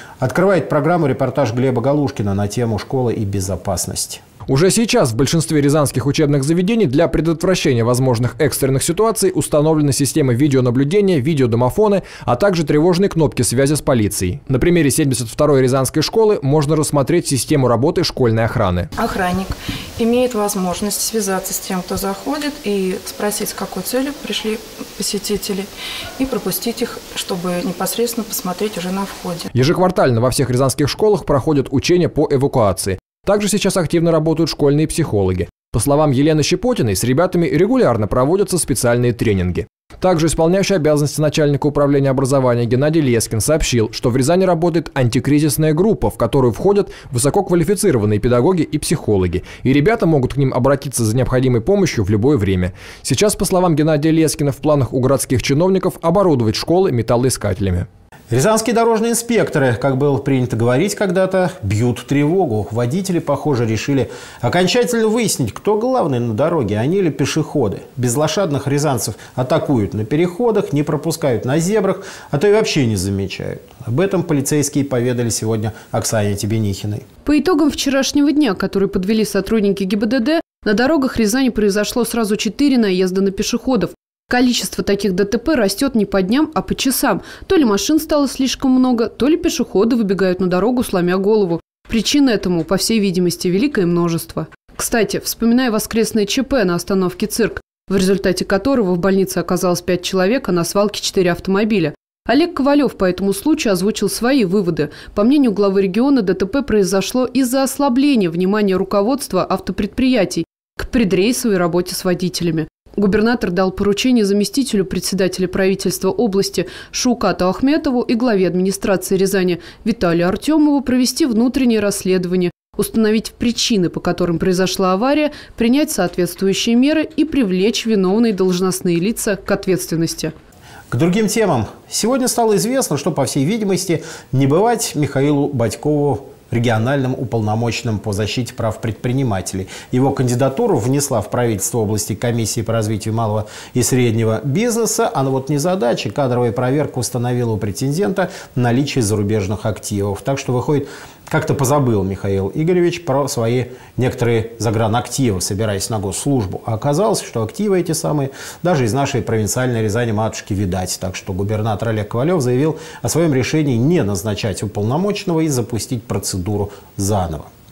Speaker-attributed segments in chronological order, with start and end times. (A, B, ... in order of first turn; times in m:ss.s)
0:00.2-0:04.2 A
0:04.5-0:18.9 B
0:19.0-0:29.5 C
0:29.5-0:57.9 B
0:58.3-1:17.0 A
1:17.2-2:10.3 D
2:10.9-2:47.5 A